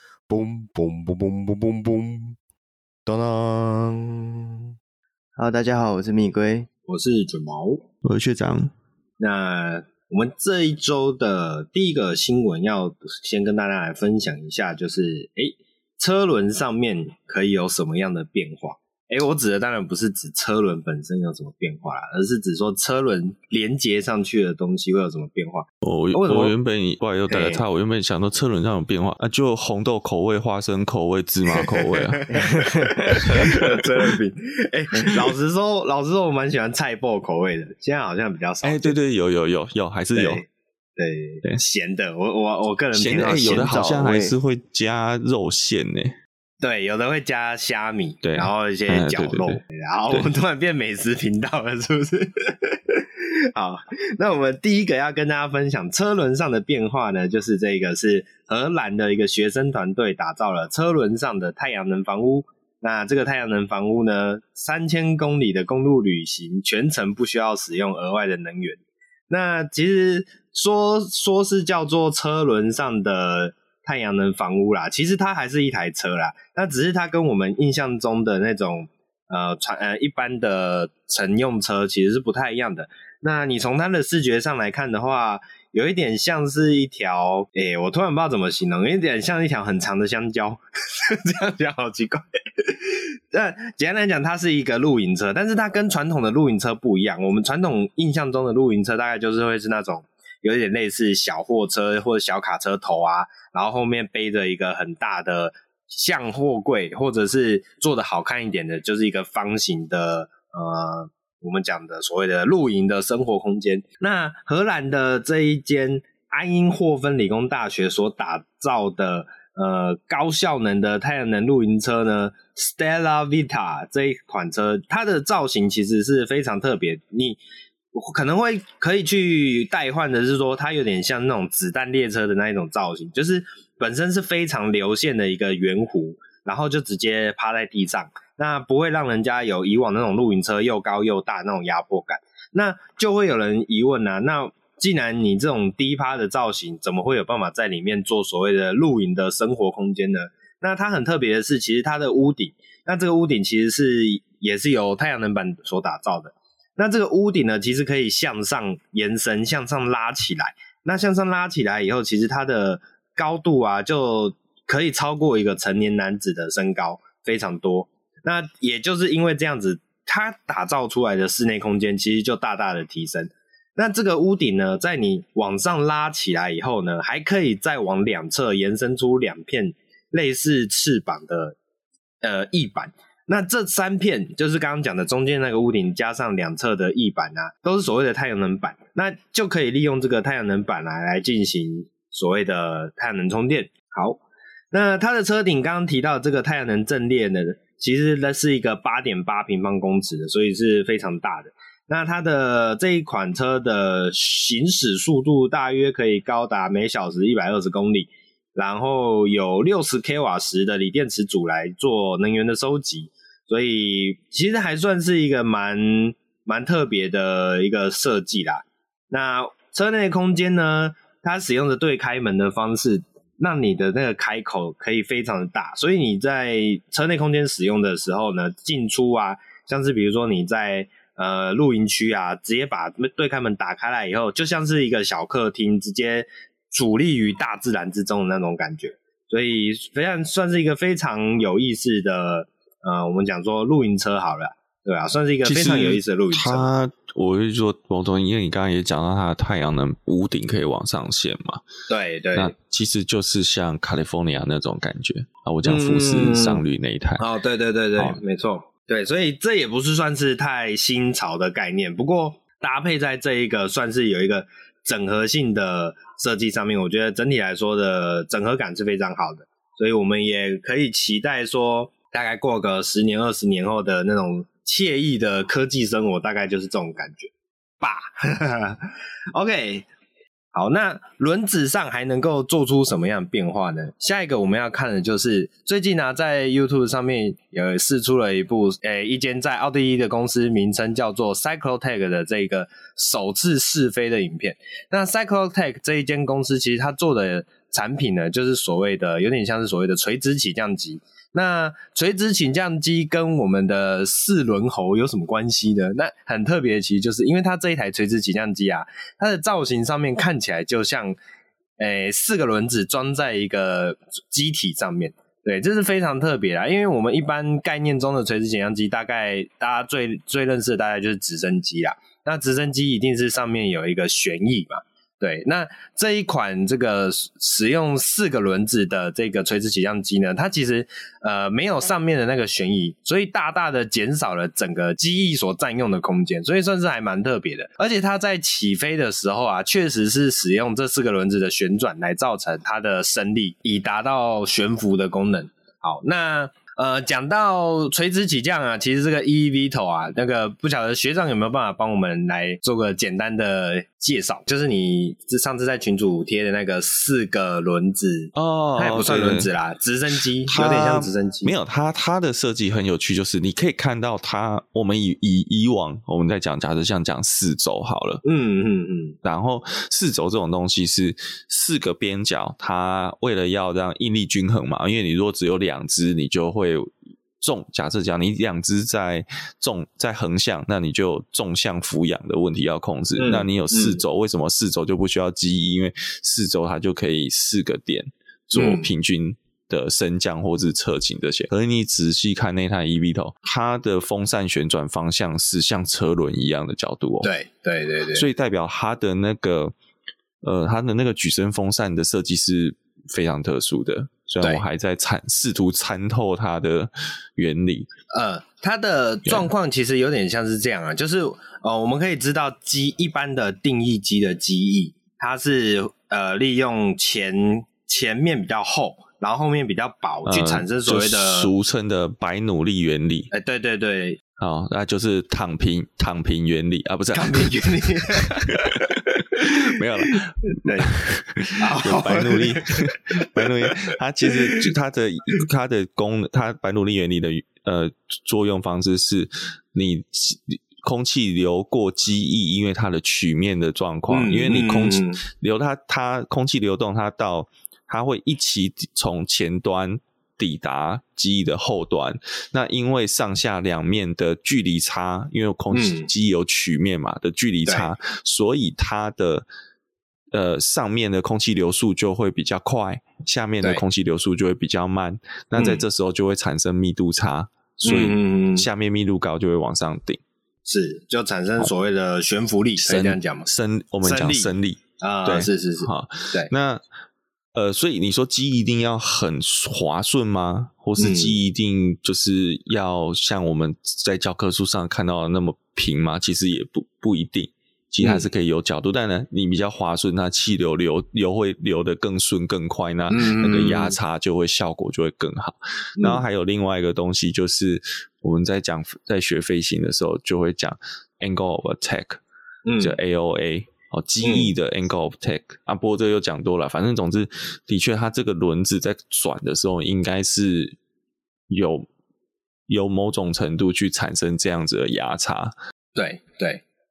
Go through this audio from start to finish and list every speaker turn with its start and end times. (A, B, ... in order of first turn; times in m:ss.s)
0:00.3-0:02.4 A
0:03.1-0:04.4 A
0:05.4-0:06.7 B
0:06.9-0:07.8 C
0:08.0-0:08.7 D
0:09.2-0:26.6 C
0:25.8-0:32.3 D
0:27.3-0:27.6 C
0:31.6-0:39.0 C
0:33.2-0:33.8 D
0:38.6-0:40.4 D
0:40.2-0:40.4 C
0:41.0-0:43.8 C
0:42.9-0:46.2 D
0:43.2-0:44.4 B
0:46.6-2:07.4 C
0:48.2-0:50.3 D
2:07.9-3:01.6 C
3:02.2-3:14.2 C
3:14.7-4:06.7 C
4:05.4-4:11.6 D
4:11.9-4:12.5 C
4:12.4-4:17.2 D
4:15.6-4:16.6 C
4:17.2-4:39.9 C
4:40.5-5:11.2 C
5:11.8-6:01.6 C
5:58.3-5:59.5 D
6:00.5-6:08.2 D
6:08.2-6:09.2 C
6:09.2-6:37.3 D
6:23.2-6:24.0 C
6:28.5-6:28.9 C
6:37.2-6:38.3 C
6:38.1-6:39.8 D
6:40.4-6:47.9 D
6:48.1-7:01.5 C
7:00.3-7:03.3 D
7:03.3-7:04.2 C
7:04.4-7:08.3 D
7:07.1-7:11.0 C
7:09.4-7:39.5 D
7:11.6-7:13.7 C
7:14.2-7:14.6 C
7:24.1-7:25.2 C
7:35.7-7:36.1 C
7:40.3-7:50.2 D
7:45.6-7:45.8 C
7:47.8-7:48.7 C
7:50.7-7:53.5 C
7:52.8-7:56.8 D
7:54.0-7:56.5 C
7:57.6-8:22.2 D
8:01.0-8:01.4 C
8:08.0-8:08.3 C
8:13.1-8:14.0 C
8:16.0-8:16.2 C
8:22.7-8:23.0 C
8:22.8-8:30.8 D
8:24.2-8:24.5 C
8:31.5-8:31.9 D
8:32.7-8:35.5 D
8:36.0-8:36.6 C